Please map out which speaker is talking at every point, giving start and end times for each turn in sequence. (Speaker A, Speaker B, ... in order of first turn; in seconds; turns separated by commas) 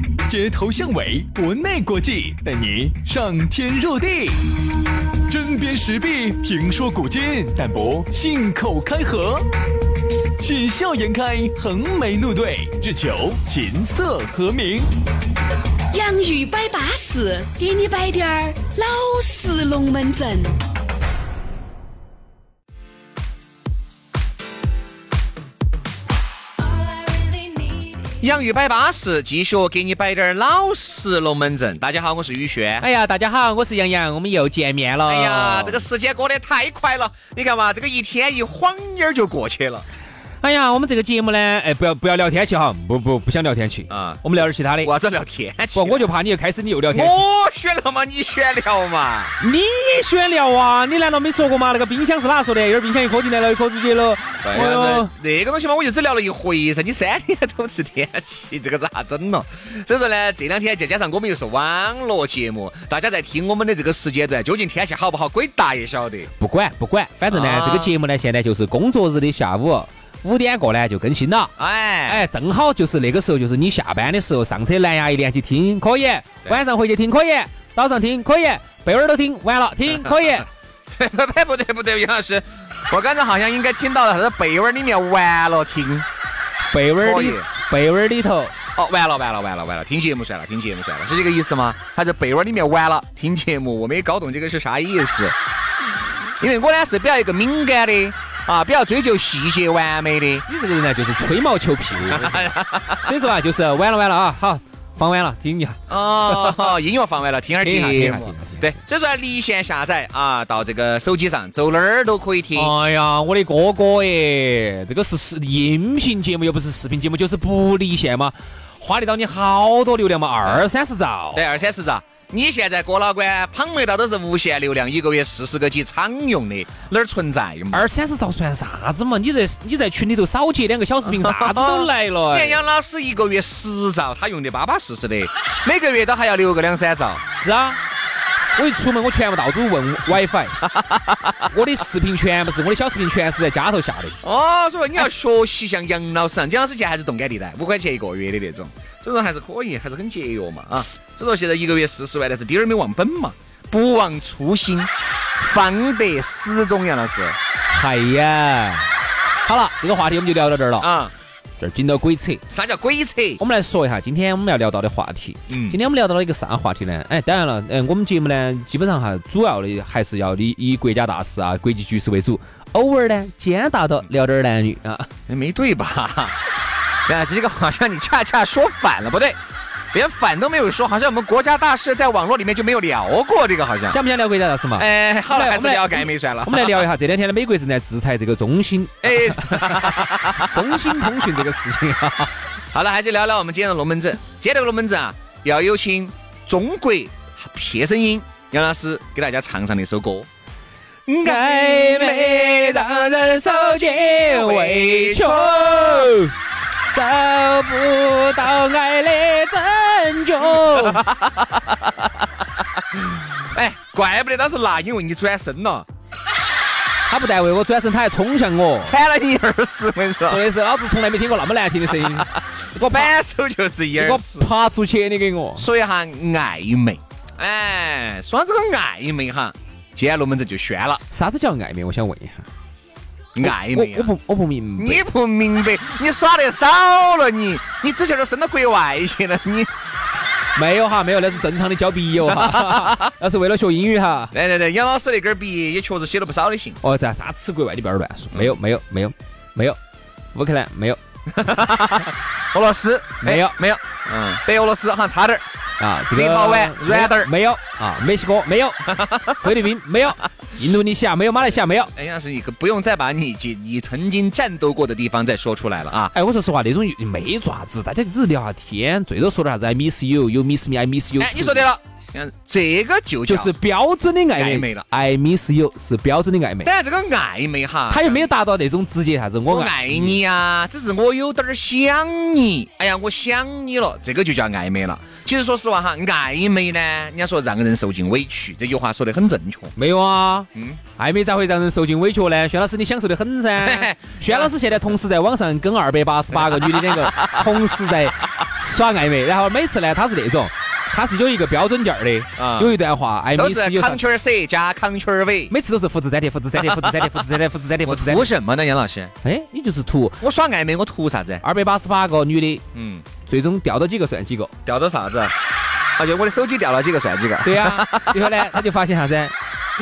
Speaker A: 0.2-4.4, Speaker A: 5.3-9.5, Speaker A: 10.4-14.9, Speaker B: 15.9-20.6, Speaker C: 28.2-32.9, Speaker D: 32.8-35.8, Speaker C: 35.0-39.9, Speaker D: 40.4-44.9, Speaker C: 43.9-46.1, Speaker D: 45.7-47.2, Speaker C: 46.9-49.3, Speaker D: 49.4-55.1, Speaker C: 54.4-66.3, Speaker D: 66.4-71.5, Speaker C: 67.3-67.9, Speaker C: 71.6-72.2, Speaker D: 72.1-80.5, Speaker C: 80.9-86.1, Speaker D: 86.7-88.5, Speaker C: 87.0-87.5, Speaker C: 88.7-95.3, Speaker C: 96.4-100.5, Speaker D: 100.5-106.7, Speaker C: 102.1-103.1, Speaker C: 105.9-112.7, Speaker D: 107.6-108.7, Speaker D: 112.5-121.4, Speaker C: 121.3-127.9, Speaker D: 127.7-132.6, Speaker C: 131.0-137.2, Speaker D: 137.3-137.8, Speaker D: 138.6-140.6, Speaker C: 140.6-141.5, Speaker D: 141.5-144.2, Speaker C: 144.2-157.4, Speaker D: 157.7-158.9, Speaker D: 159.4-160.9, Speaker C: 160.8-161.1, Speaker D: 161.6-162.4, Speaker C: 162.5-163.4, Speaker D: 163.4-175.1, Speaker C: 165.5-165.8, Speaker C: 175.3-176.4, Speaker C: 177.1-179.4, Speaker C: 179.9-184.0, Speaker D: 183.9-192.3, Speaker C: 184.7-186.9, Speaker C: 189.0-191.4, Speaker C: 192.7-200.3, Speaker C: 201.1-206.2, Speaker D: 201.2-206.3, Speaker D: 206.9-211.0, Speaker C: 210.4-212.2, Speaker C: 212.9-215.8, Speaker D: 217.1-218.9, Speaker C: 218.8-220.4, Speaker D: 220.3-223.1, Speaker C: 221.9-224.5, Speaker D: 223.9-225.7, Speaker C: 225.6-231.0, Speaker D: 231.1-232.5, Speaker C: 233.3-234.1, Speaker D: 233.4-235.1, Speaker C: 234.8-239.7, Speaker D: 240.6-244.3, Speaker C: 242.2-243.1, Speaker C: 244.3-246.8, Speaker D: 246.8-249.8, Speaker D: 250.3-251.0, Speaker C: 251.3-255.4, Speaker D: 253.2-253.6, Speaker D: 255.8-261.9, Speaker C: 256.1-257.3, Speaker C: 258.9-259.5, Speaker C: 261.9-266.1, Speaker D: 266.1-271.7, Speaker C: 271.2-273.5, Speaker D: 273.2-276.7, Speaker C: 274.3-274.9, Speaker C: 276.6-278.3, Speaker D: 277.9-280.2, Speaker C: 279.5-289.7, Speaker D: 289.8-304.0, Speaker C: 290.5-290.8, Speaker C: 293.6-294.6, Speaker C: 296.3-297.9, Speaker C: 302.4-302.8, Speaker C: 303.3-305.5, Speaker D: 305.5-308.3, Speaker C: 306.6-309.1, Speaker D: 309.2-310.2, Speaker C: 310.2-311.4, Speaker D: 311.4-312.6, Speaker C: 312.7-313.1, Speaker D: 313.2-314.5, Speaker C: 314.6-315.3, Speaker C: 316.0-318.6, Speaker D: 317.4-319.3